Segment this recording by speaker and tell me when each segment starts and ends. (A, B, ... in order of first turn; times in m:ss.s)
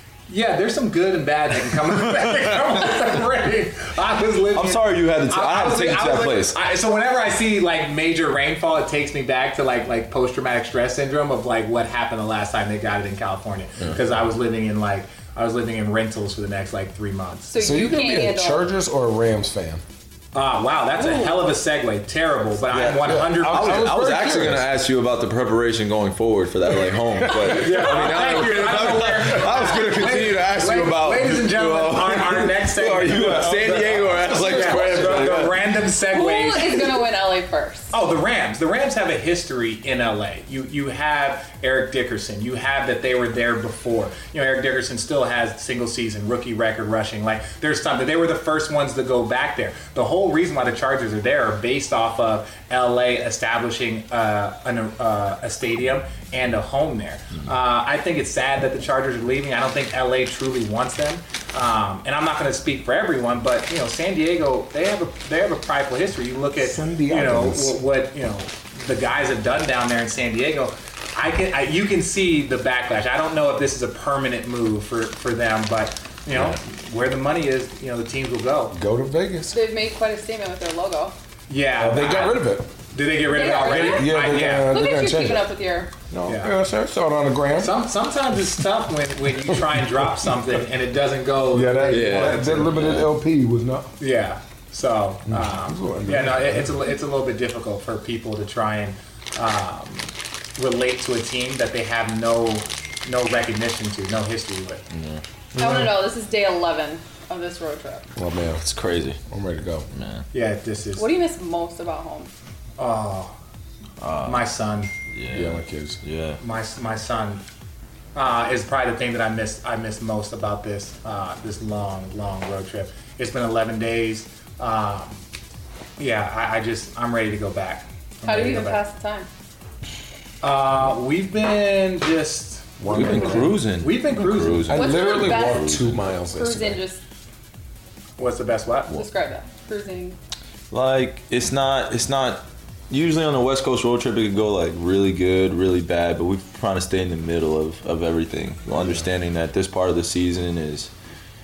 0:00.3-0:17.5 A
0:04.5-0:06.6 B
0:17.5-0:18.7 C
0:17.6-0:19.8 D
0:20.3-0:24.1 A
0:21.0-0:21.5 C
0:22.7-0:35.6 B
0:23.1-0:24.7 D
0:27.3-0:28.4 D
0:27.5-0:37.0 A
0:35.0-0:35.4 D
0:36.1-0:37.9 C
0:37.9-1:18.8 A
1:06.6-1:07.8 D
1:18.7-1:19.6 D
1:19.5-1:21.2 C
1:21.5-1:24.8 A
1:21.8-1:22.7 D
1:23.3-1:25.9 C
1:23.6-1:25.5 D
1:26.1-1:27.8 D
1:26.3-1:26.5 A
1:27.6-1:33.0 A
1:31.5-1:33.9 D
1:31.9-1:33.1 B
1:34.0-1:44.8 A
1:35.3-1:36.7 D
1:44.9-1:45.2 B
1:45.6-1:45.9 D
1:45.6-1:48.1 C
1:48.2-1:48.6 D
1:48.6-1:49.2 B
1:49.3-1:49.9 D
1:49.9-1:50.2 B
1:50.3-1:51.1 A
1:51.0-1:52.3 C
1:52.8-1:53.3 A
1:54.0-1:54.5 B
1:54.2-1:54.9 A
1:55.1-1:56.4 B
1:55.3-1:56.0 D
1:56.4-1:57.4 A
1:58.2-2:05.2 A
2:06.0-2:08.8 A
2:08.2-2:09.3 C
2:10.4-2:14.8 A
2:12.8-2:13.6 D
2:12.9-2:16.0 B
2:14.7-2:16.8 D
2:14.7-2:17.0 C
2:18.2-2:19.0 A
2:18.9-2:20.2 C
2:20.7-2:30.9 B